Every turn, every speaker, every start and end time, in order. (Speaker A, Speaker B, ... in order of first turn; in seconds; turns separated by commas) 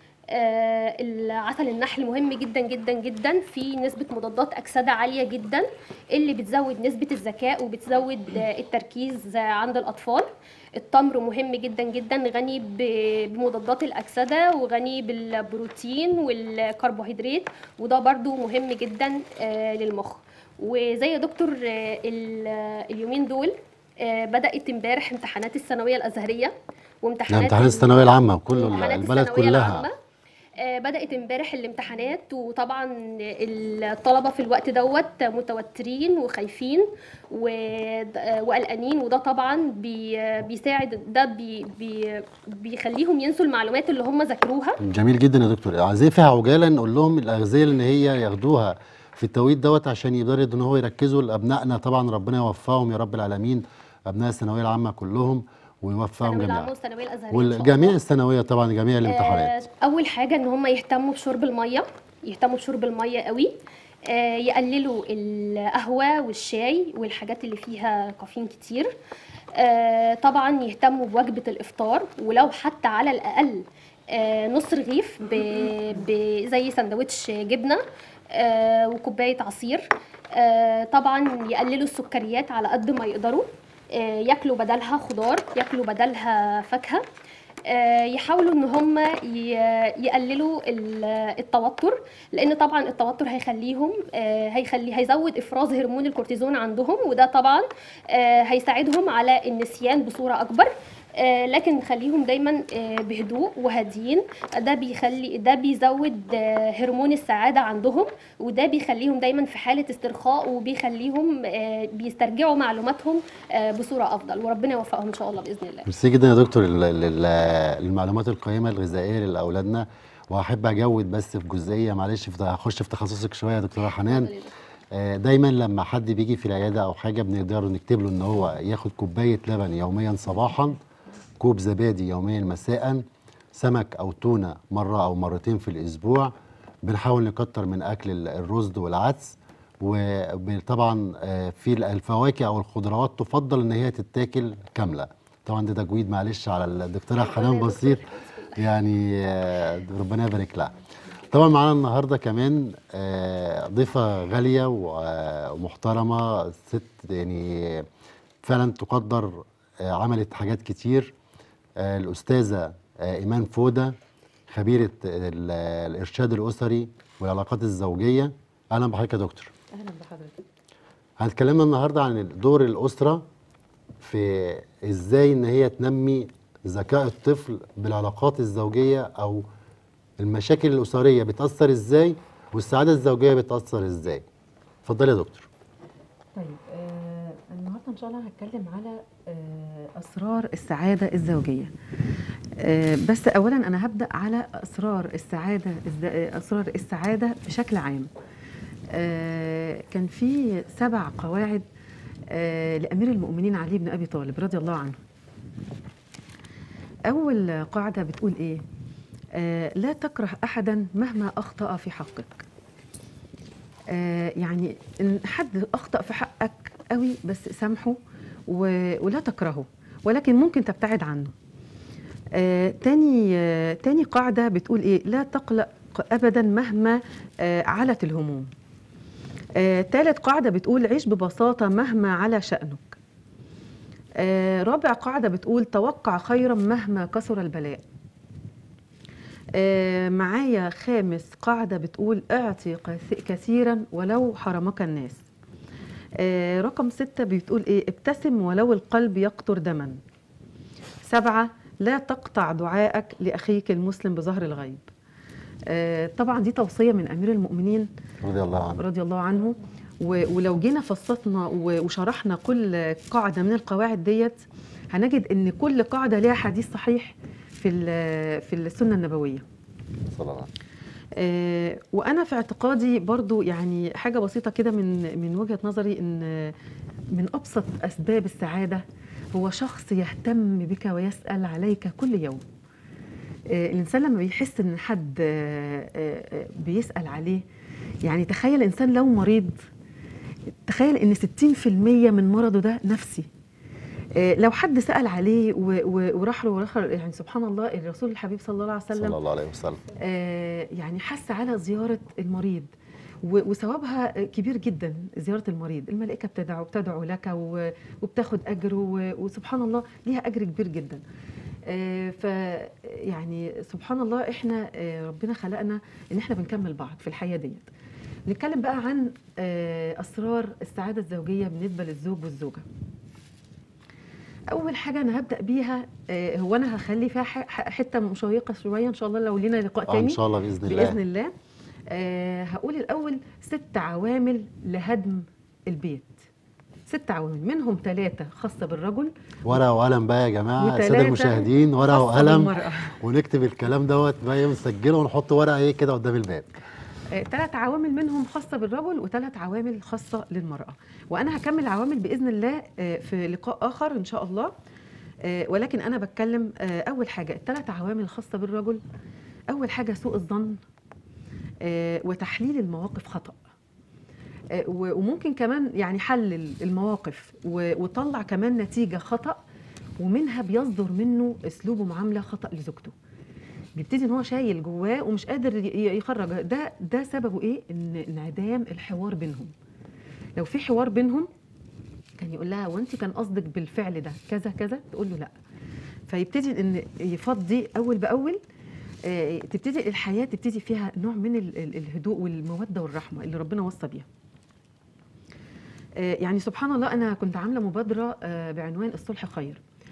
Speaker A: 0.3-29.9, Speaker B: 27.3-29.9, Speaker A: 30.6-44.8, Speaker B: 44.8-56.7, Speaker A: 56.2-58.0, Speaker B: 57.3-59.5, Speaker A: 59.0-63.5, Speaker A: 64.1-68.9, Speaker A: 69.5-77.8, Speaker A: 78.3-87.0, Speaker A: 87.7-115.8, Speaker B: 115.9-124.3, Speaker A: 123.9-124.5, Speaker B: 124.9-130.8, Speaker B: 131.4-133.0, Speaker B: 133.5-136.3, Speaker B: 136.8-150.7, Speaker A: 147.2-148.7, Speaker B: 151.3-157.8, Speaker B: 158.4-161.1, Speaker B: 161.8-163.9, Speaker B: 164.5-169.5, Speaker C: 169.7-170.4, Speaker B: 171.2-173.2, Speaker B: 174.0-179.4, Speaker B: 180.2-184.2, Speaker B: 184.8-185.5, Speaker C: 186.3-191.7, Speaker C: 192.6-198.1, Speaker C: 198.9-201.6, Speaker C: 202.3-205.0, Speaker C: 207.1-208.6, Speaker C: 209.3-212.4, Speaker C: 213.9-221.3, Speaker C: 222.3-228.5, Speaker C: 229.6-233.0, Speaker C: 234.2-237.8, Speaker C: 239.5-245.2, Speaker C: 246.2-250.0, Speaker C: 251.0-254.9, Speaker C: 255.7-257.9, Speaker B: 258.2-258.8, Speaker C: 258.8-269.4, Speaker B: 270.1-270.5, Speaker C: 271.2-276.5, Speaker C: 277.1-282.4, Speaker C: 283.5-287.4, Speaker C: 288.0-289.6, Speaker C: 290.7-293.3, Speaker C: 294.2-299.2, Speaker B: 298.9-299.8, Speaker C: 299.9-302.7, Speaker C: 303.2-311.0, Speaker C: 311.7-317.7, Speaker C: 318.3-322.6, Speaker C: 324.5-331.3, Speaker B: 329.9-331.0, Speaker C: 331.9-336.2, Speaker C: 336.9-339.6, Speaker B: 339.5-346.5, Speaker C: 340.6-342.9, Speaker C: 347.1-354.5, Speaker C: 355.2-358.8, Speaker C: 359.5-360.6, Speaker C: 361.6-363.4, Speaker C: 364.5-369.4, Speaker C: 370.0-372.9, Speaker C: 373.8-379.5, Speaker C: 380.4-381.3, Speaker C: 382.2-385.3, Speaker C: 386.1-388.4, Speaker C: 389.0-394.1, Speaker C: 396.0-399.6